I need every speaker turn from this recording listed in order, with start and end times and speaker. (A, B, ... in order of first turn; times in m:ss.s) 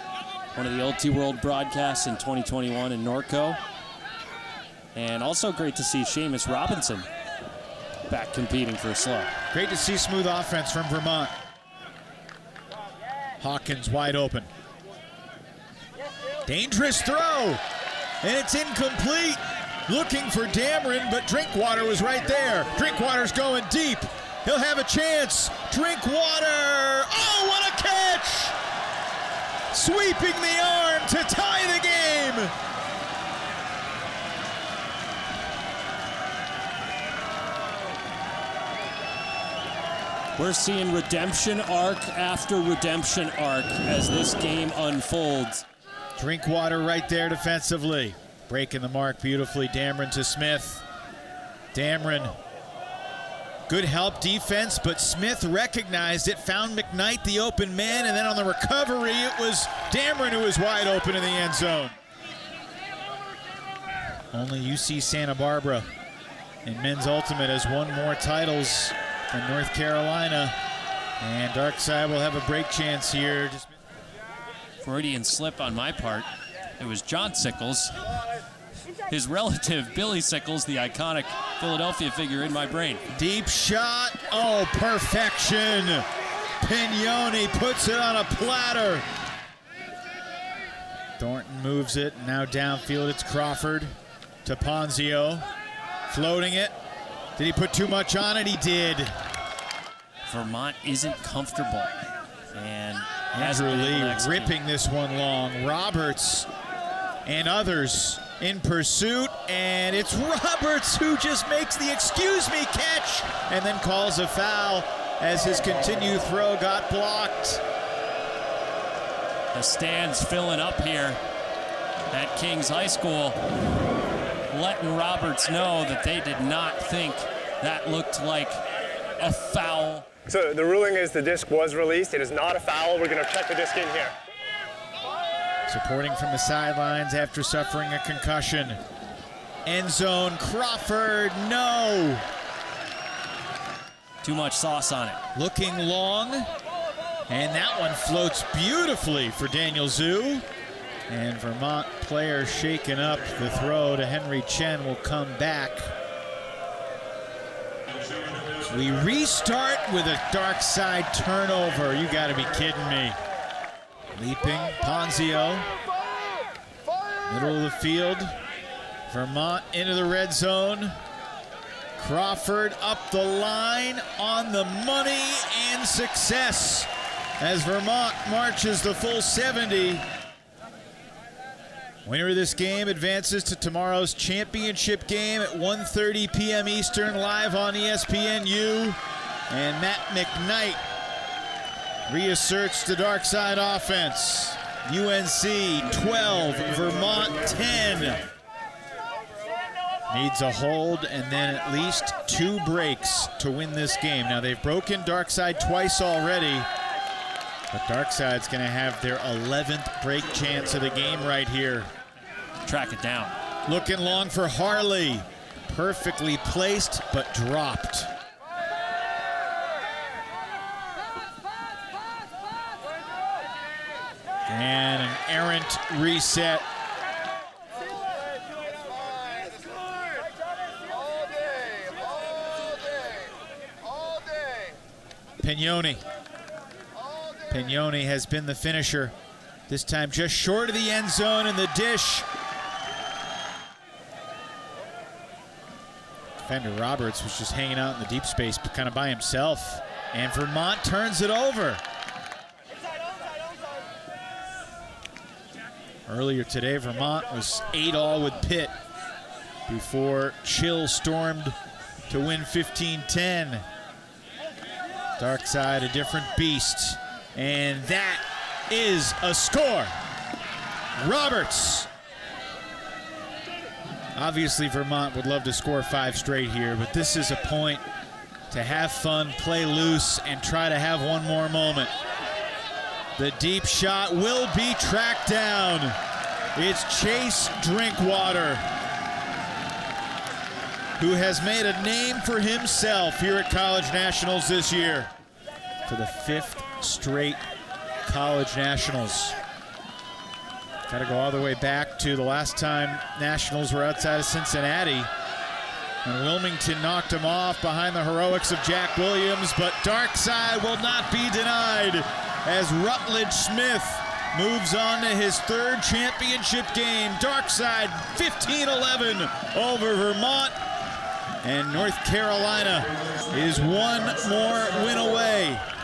0:00.6-0:03.6 A
0:04.9-0:07.1 A
0:08.1-0:09.3 A
0:09.5-0:11.3 B
0:13.4-0:14.5 B
0:16.5-0:17.6 B
0:18.2-0:28.6 B
0:29.7-0:32.5 B
0:40.4-0:45.6 A
0:46.2-0:50.8 B
0:51.7-0:52.4 B
0:53.7-1:02.0 B
1:04.3-1:05.9 B
1:06.6-1:10.5 B
1:11.2-1:13.7 B
1:14.8-1:18.0 A
1:19.1-1:23.1 A
1:23.2-1:26.0 B
1:26.6-1:29.0 B
1:31.2-1:33.9 B
1:34.4-1:35.5 B
1:36.1-1:36.7 B
1:37.4-1:39.1 B
1:40.3-1:41.9 A
1:42.5-1:44.6 A
1:43.3-1:46.5 B
1:47.3-1:57.6 B
1:59.5-2:01.2 A
2:02.1-2:03.4 A
2:04.5-2:08.6 A
2:09.2-2:10.3 A
2:10.3-2:14.2 C
2:15.7-2:18.8 B
2:19.7-2:22.2 B
2:24.2-2:25.2 A
2:25.4-2:26.5 B
2:27.3-2:30.4 B
2:31.1-2:35.9 B
2:38.7-2:43.2 B
2:44.2-2:45.8 B
2:47.3-2:48.4 B
2:49.1-2:51.0 B
2:52.0-3:00.0 B
3:02.0-3:09.0 B
3:09.5-3:10.8 B
3:12.1-3:18.2 B
3:20.1-3:26.7 B
3:27.7-3:31.9 B
3:32.6-3:33.4 A
3:33.7-3:38.1 B
3:44.5-3:46.6 B
3:55.4-3:56.0 B
3:57.5-3:59.1 B
3:59.7-4:02.3 B
4:06.4-4:11.8 B
4:16.1-4:18.7 B
4:19.7-4:21.6 B
4:22.1-4:23.6 B
4:25.2-4:29.9 B
4:31.0-4:31.9 B
4:34.2-4:37.8 B
4:38.5-4:41.9 B
4:43.2-4:46.0 B
4:46.6-4:48.6 B
4:51.0-4:55.1 B
4:55.9-4:57.4 B
4:58.0-4:59.4 B
5:00.9-5:05.1 B
5:06.0-5:20.5 B
5:21.4-5:25.6 B